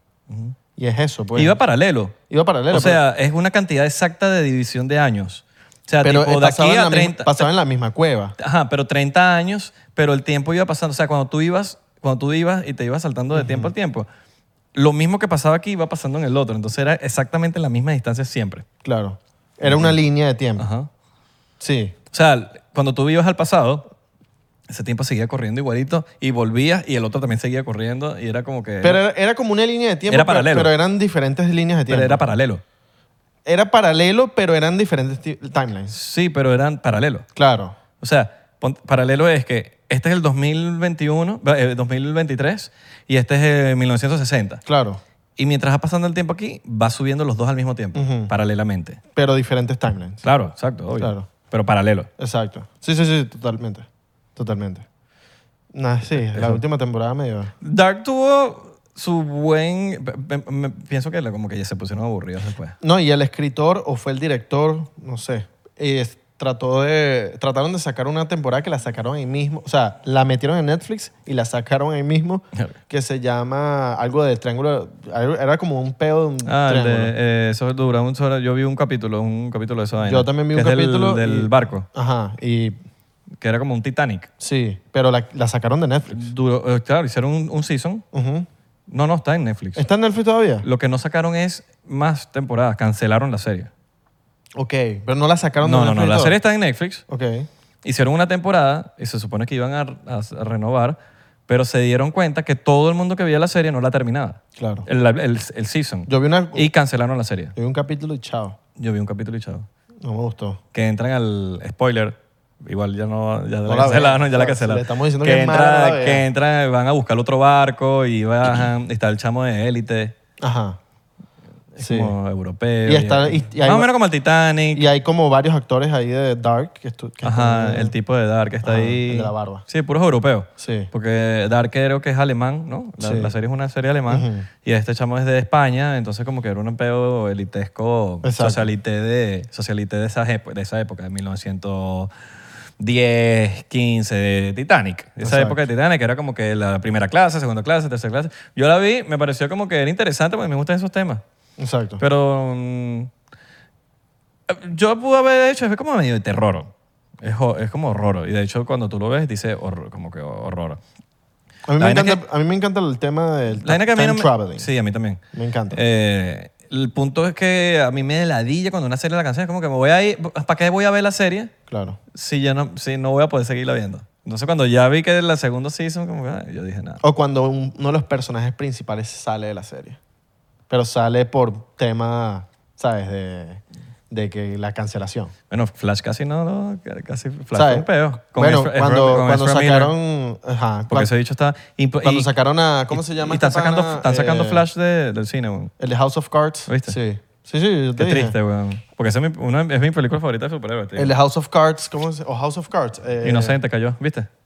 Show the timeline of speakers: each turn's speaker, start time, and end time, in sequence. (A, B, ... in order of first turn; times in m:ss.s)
0:00.3-0:00.6 A
0:00.8-0:01.6 B
0:01.4-0:02.2 A
0:02.3-0:03.0 B
0:02.7-0:07.5 A
0:06.0-0:08.4 B
0:08.4-0:14.1 A
0:13.3-0:13.7 B
0:14.8-0:18.6 A
0:18.8-0:20.7 B
0:19.6-0:20.0 A
0:20.6-0:20.9 A
0:21.6-0:22.0 B
0:22.1-0:23.8 A
0:24.7-0:29.0 A
0:28.8-0:32.2 B
0:30.1-0:30.7 A
0:31.9-0:32.6 A
0:33.4-0:35.9 B
0:35.9-0:37.3 A
0:37.4-0:37.8 B
0:38.0-0:44.6 A
0:44.7-0:45.0 B
0:45.4-0:49.0 A
0:48.0-0:48.3 B
0:49.2-0:50.3 B
0:50.2-0:52.1 A
0:51.0-0:51.3 B
0:52.2-0:54.8 B
0:55.7-0:57.5 B
0:56.2-0:56.6 A
0:57.6-1:02.8 A
1:02.8-1:17.1 B
1:16.5-1:21.9 A
1:20.0-1:22.8 B
1:23.4-1:24.3 A
1:24.4-1:26.3 B
1:26.1-1:28.0 A
1:28.1-1:28.5 B
1:28.9-1:29.9 A
1:29.8-1:30.7 B
1:30.6-1:33.7 A
1:34.6-1:36.4 B
1:35.6-1:37.0 A
1:37.1-1:37.5 B
1:37.8-1:41.0 A
1:41.5-1:47.5 A
1:44.6-1:44.9 B
1:46.1-1:46.7 B
1:47.6-1:48.6 B
1:48.8-1:49.7 A
1:50.0-1:50.6 B
1:50.7-2:00.1 A
1:53.7-1:56.2 B
2:00.4-2:00.8 B
2:01.8-2:04.9 A
2:01.8-2:02.1 B
2:02.9-2:03.9 B
2:04.7-2:07.9 B
2:07.2-2:22.1 A
2:08.6-2:09.6 B
2:10.6-2:10.9 B
2:13.0-2:13.3 B
2:14.1-2:14.5 B
2:18.2-2:18.7 B
2:22.8-2:31.2 A
2:25.2-2:25.6 B
2:31.6-2:32.0 B
2:32.0-2:33.1 A
2:34.5-2:36.7 A
2:37.2-2:40.8 A
2:41.7-2:44.7 B
2:41.8-2:42.2 A
2:43.6-2:51.5 A
2:45.3-2:45.8 B
2:51.7-2:52.0 B
2:52.1-2:57.0 A
2:57.0-3:00.0 B
3:00.7-3:05.3 B
3:05.5-3:09.9 A
3:07.5-3:11.1 B
3:10.9-3:12.3 A
3:12.0-3:14.6 B
3:12.9-3:15.7 A
3:15.8-3:18.4 B
3:16.7-3:17.0 A
3:18.0-3:21.1 A
3:21.0-3:23.6 B
3:23.2-3:24.3 A